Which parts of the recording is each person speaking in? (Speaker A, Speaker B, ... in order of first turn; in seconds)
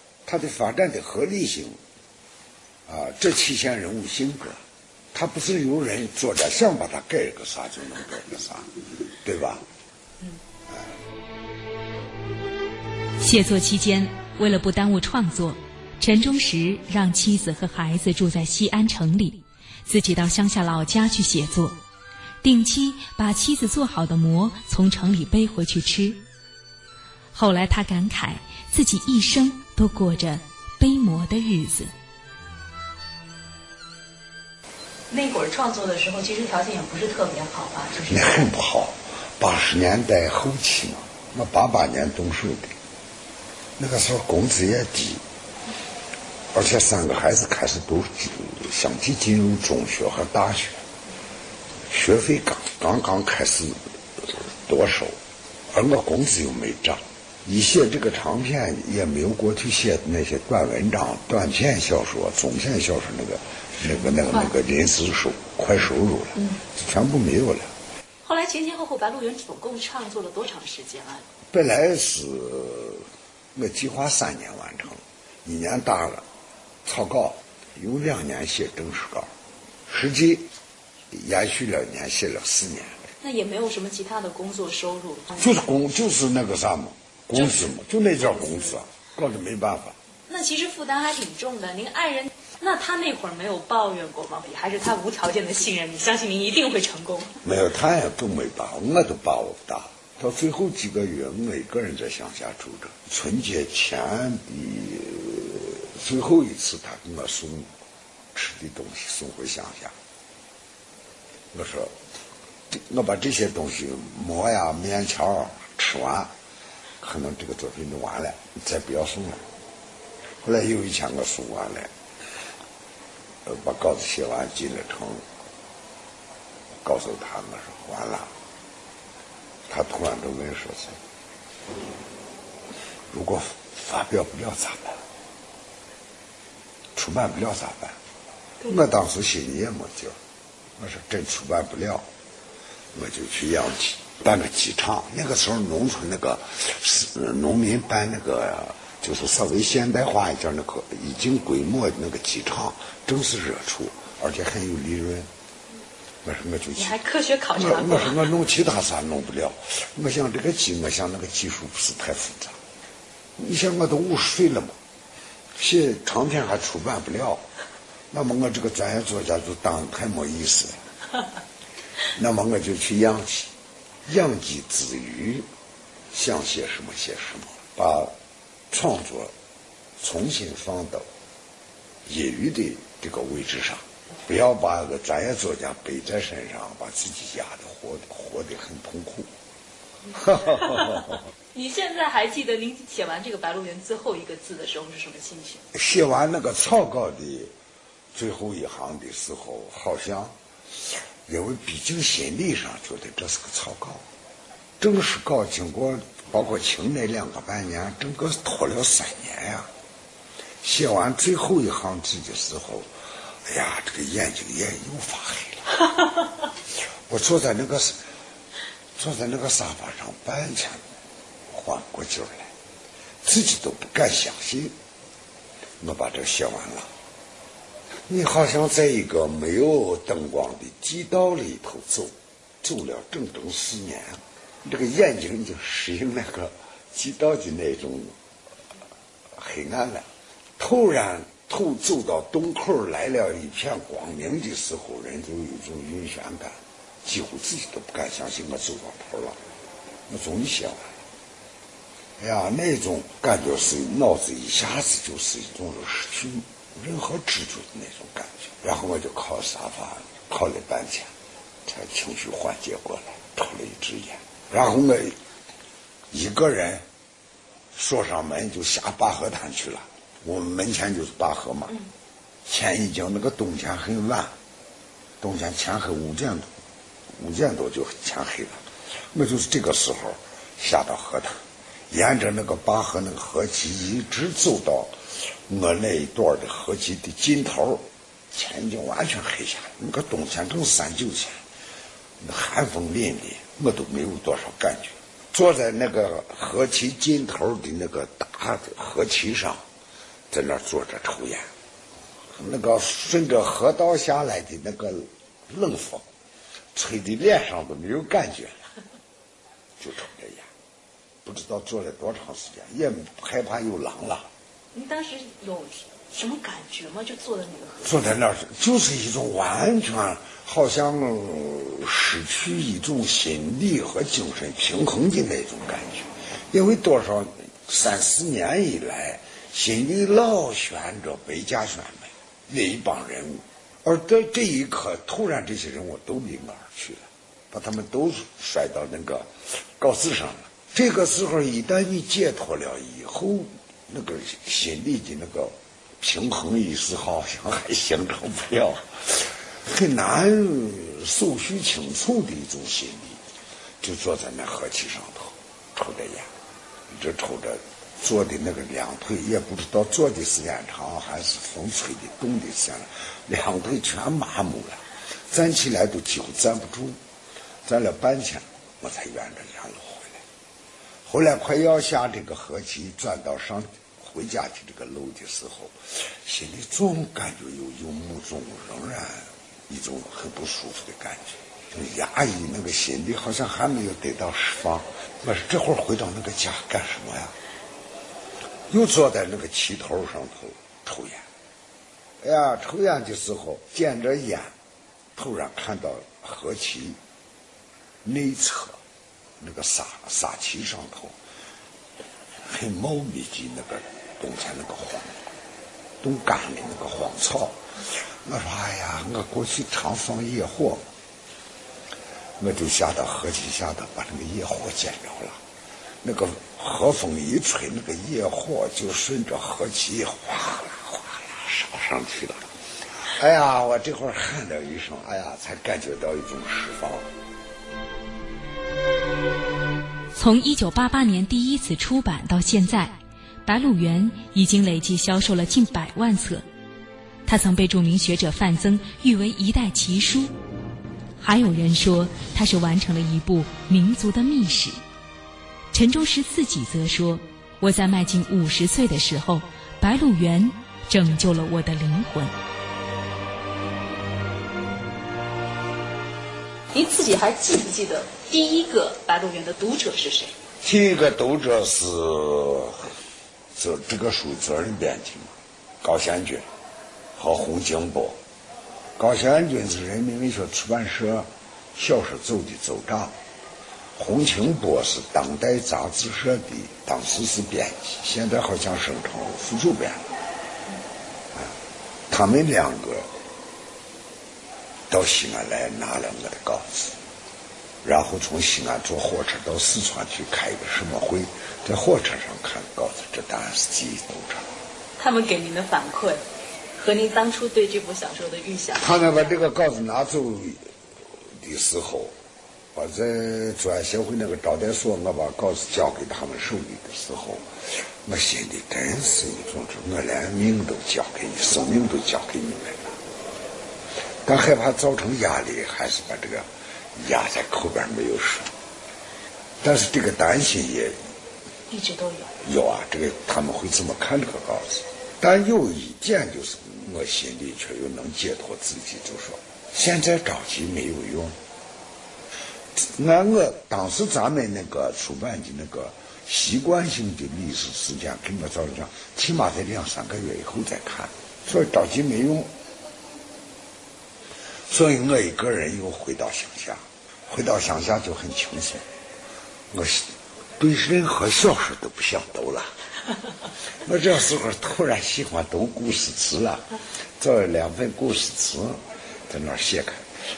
Speaker A: 0.2-1.8, 2.9-4.6, 5.1-9.6, 38.0-42.7, 43.8-45.2, 46.5-50.8, 51.9-55.2, 55.7-67.7, 71.5-76.2, 76.8-79.3, 79.9-80.5, 81.1-83.0, 85.3-90.0, 97.4-107.7, 108.3-109.9, 111.5-111.9, 112.7-116.3, 117.0-119.4, 120.4-121.9, 123.4-125.2, 126.8-128.3, 129.7-131.0, 133.1-135.0, 136.9-138.0, 138.6-140.2, 140.8-142.1, 142.9-155.3, 156.2-156.9, 157.5-162.6, 163.4-164.8, 165.6-167.4, 168.1-170.8, 172.1-173.5, 174.1-175.5, 176.1-178.1, 178.7-179.3, 180.0-181.1, 182.1-189.3, 190.1-191.1, 195.7-197.5, 198.1-200.3, 201.3-204.0, 204.8-209.7, 210.6-212.9, 213.4-215.7, 217.1-217.9, 219.0-220.8, 221.5-222.5, 223.2-224.7, 225.8-226.9, 228.1-238.1, 239.3-240.1, 240.6-249.4, 250.1-250.9, 252.2-261.1, 261.6-265.2, 266.1-266.8, 267.7-271.8, 272.5-274.3, 275.2-276.5, 277.2-278.6, 279.1-281.4, 281.9-284.9, 285.5-291.4, 292.2-299.6, 300.3-301.5, 302.3-306.1, 306.7-308.6, 309.8-310.5, 311.2-314.3, 317.8-353.2, 353.8-356.3, 356.9-367.0, 367.6-370.2, 371.1-387.3, 388.7-391.2, 392.2-394.5, 395.1-397.0, 398.0-398.8, 399.4-401.1, 402.4-405.2, 406.0-407.6, 408.2-410.8, 412.4-415.4, 416.0-422.4, 423.0-427.1, 460.6-462.9, 463.5-466.5, 467.1-468.2, 469.0-473.1, 474.0-480.0, 482.1-483.1, 484.9-486.9, 487.8-494.4, 498.7-500.7, 501.4-502.1, 502.7-507.5, 508.0-512.9, 514.2-516.5, 517.0-518.5, 519.6-521.0, 522.4-531.4, 532.8-542.5, 544.7-548.8, 549.7-552.7, 553.8-560.0
Speaker B: 13.2-21.8, 22.4-26.2, 27.3-31.9, 430.1-436.4, 437.2-440.3, 441.2-444.8, 445.7-452.3
Speaker C: 35.1-38.3, 68.2-71.2, 83.2-85.3, 87.3-87.7, 90.3-97.3, 156.8-158.2, 191.5-195.6, 314.7-317.9, 456.7-460.3, 495.0-496.2, 496.8-499.1, 521.7-522.3